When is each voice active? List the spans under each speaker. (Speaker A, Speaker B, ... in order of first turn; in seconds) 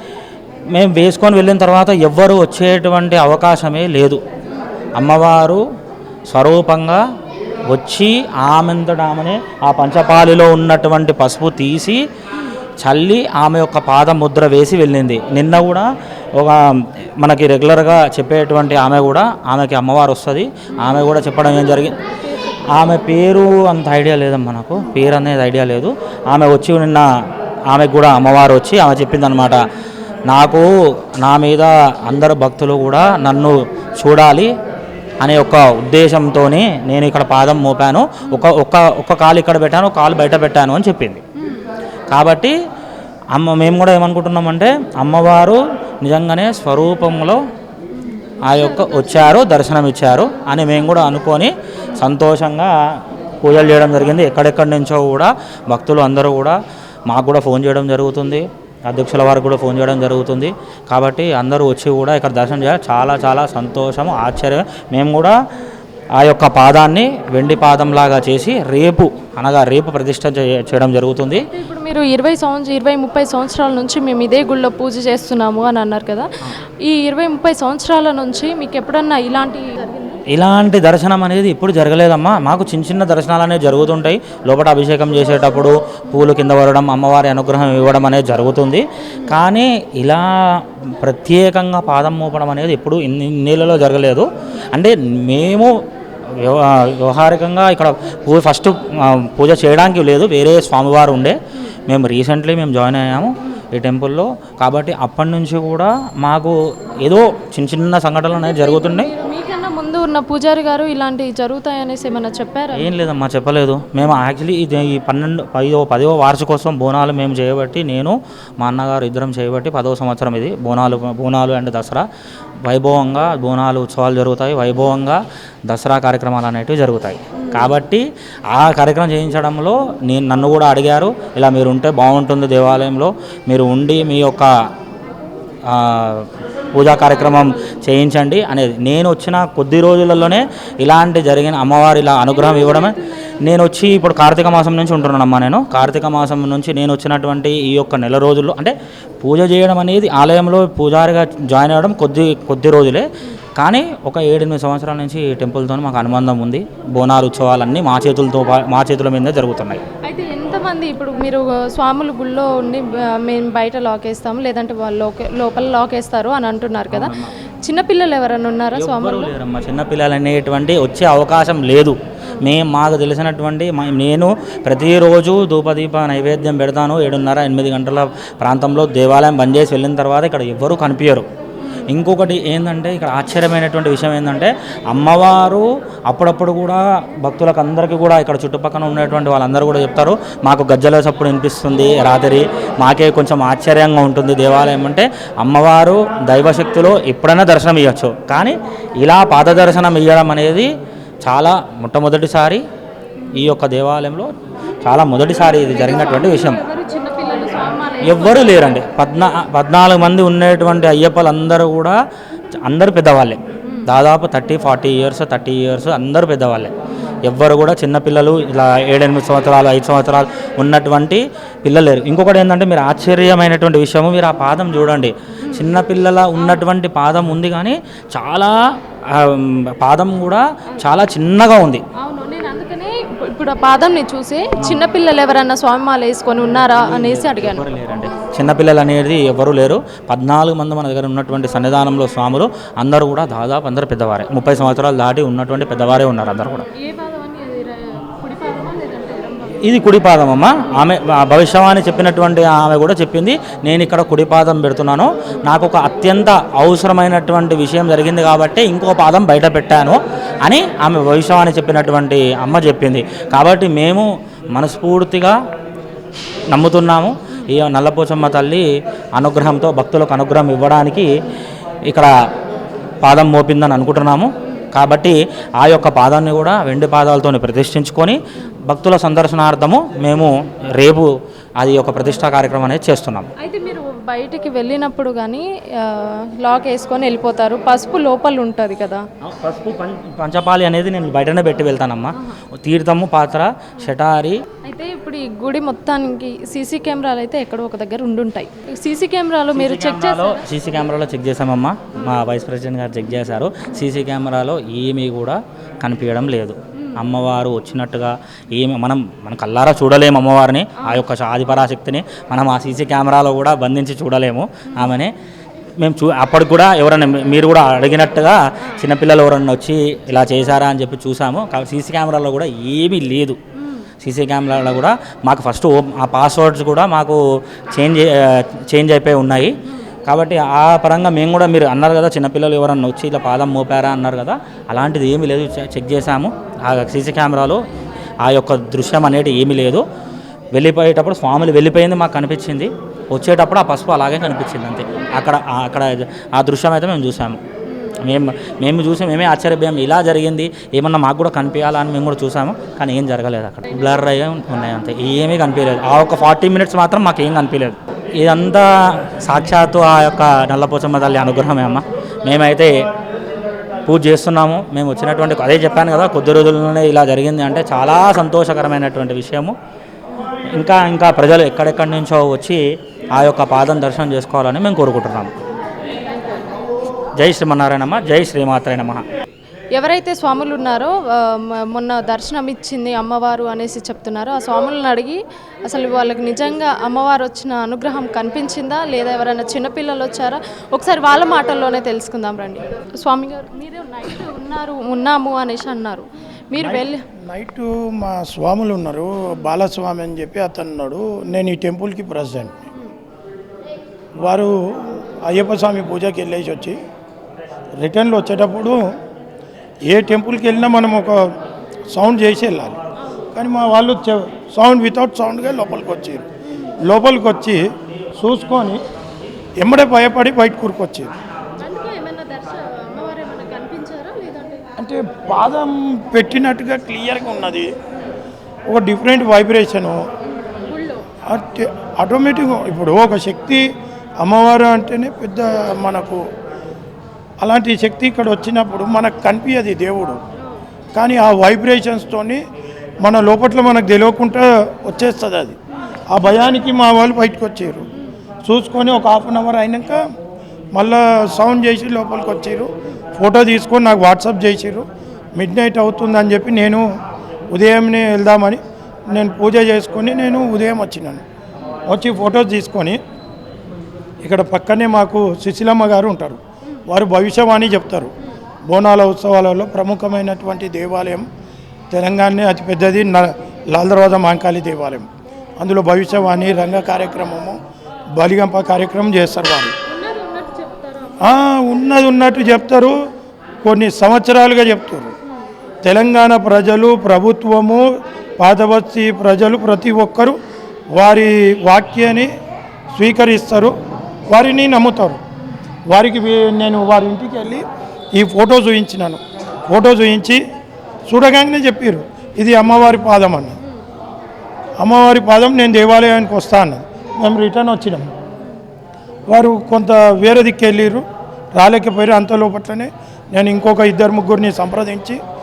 Speaker A: 0.7-4.2, 5.0-5.6, 6.3-7.0, 7.7-12.0, 12.8-21.9, 22.7-27.1, 27.7-29.6, 30.3-30.7, 31.2-34.5, 35.2-41.2, 42.1-42.5, 43.3-47.4, 48.4-52.7, 53.4-65.4, 66.2-71.5, 80.3-95.8, 96.3-109.1, 112.7-122.0, 122.6-134.5, 135.7-159.8, 166.9-167.3, 168.8-181.2, 181.9-200.7, 201.2-202.6, 203.3-204.3, 204.8-206.6, 208.0-212.0, 212.6-216.7, 217.2-231.8, 234.6-234.9, 236.8-246.7, 249.6-265.4, 266.5-271.1, 273.0-283.3, 289.2-294.4, 299.5-315.1, 315.8-323.4, 324.0-327.2, 327.7-337.6, 338.2-339.8, 340.5-347.4, 348.0-362.8, 363.9-369.5, 370.4-372.6, 373.1-375.3, 377.2-379.0
Speaker B: 22.4-22.6, 48.0-49.3, 71.5-80.2, 108.4-112.9, 160.0-169.3, 205.6-208.8, 232.0-237.6, 246.7-249.6, 283.4-289.1, 294.6-300.4, 379.8-397.0, 421.6-424.7, 430.3-431.0, 479.9-481.2
Speaker C: 396.6-402.6, 404.2-406.8, 407.8-408.9, 409.9-411.3, 411.9-412.8, 413.3-416.2, 416.8-418.8, 419.6-421.1, 424.8-427.7, 428.7-430.0, 431.2-433.7, 434.2-436.2, 437.4-440.2, 440.9-442.4, 443.0-445.6, 446.1-447.9, 448.4-450.0, 450.7-456.9, 457.5-461.2, 461.9-463.0, 464.2-468.1, 468.7-471.3, 471.9-475.1, 475.6-477.6, 478.1-479.8, 481.2-482.9, 483.6-485.1, 485.8-487.8, 488.4-490.4, 490.9-492.3, 492.9-493.8, 494.3-495.2, 495.9-500.4, 501.1-503.6, 504.8-508.1, 509.3-515.2